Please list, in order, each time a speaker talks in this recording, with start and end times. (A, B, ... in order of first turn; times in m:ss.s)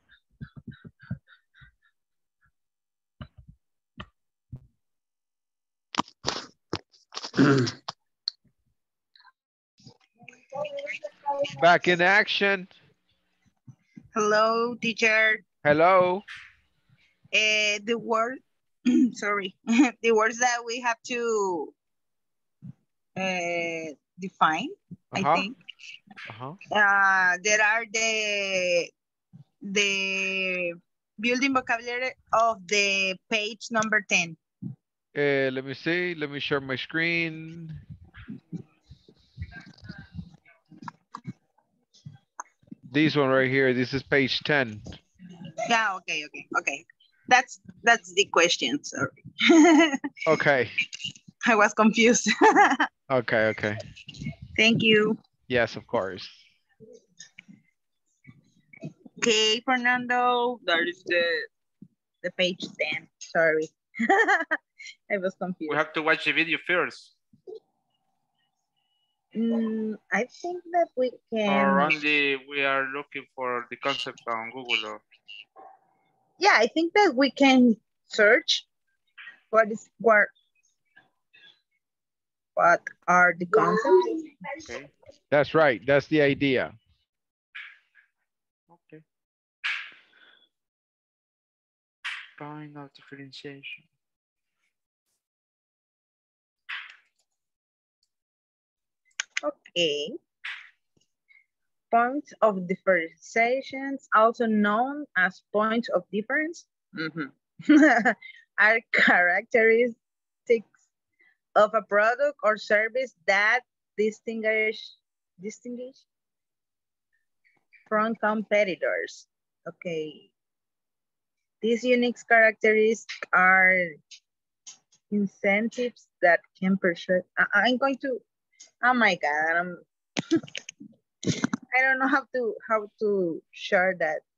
0:11.6-0:12.7 A
0:14.1-0:15.4 B
0:15.6-0:16.2 A
0:17.3-0:18.4 B
0:19.1-0:21.7 B
0:23.2-0:25.6 B
0:25.1-0:25.5 A
0:26.3-0:26.6 A
0:26.7-0:28.9 B
0:29.6-0:34.4 B
0:35.1-0:37.8 A
0:42.9-0:45.0 A
0:45.7-0:50.1 B
0:50.3-0:50.8 A
0:51.4-0:52.8 B
0:53.1-0:53.8 A
0:54.6-0:55.2 B
0:55.5-0:56.4 A
0:59.2-1:01.5 B
1:02.2-1:04.6 B
1:05.1-1:05.8 B
1:05.7-1:07.1 C
1:09.3-1:12.0 B
1:11.5-1:15.0 C
1:16.4-1:18.6 B
1:19.5-1:20.3 B
1:22.6-1:24.1 B
1:24.6-1:24.9 C
1:25.3-1:26.7 A
1:28.7-1:29.0 C
1:32.4-1:33.9 C
1:39.4-1:40.2 B
1:41.9-1:50.0 B
1:51.6-1:56.0 B
1:57.9-2:00.3 B
2:01.6-2:03.9 B
2:05.1-2:08.2 B
2:08.8-2:09.8 B
2:11.3-2:14.2 B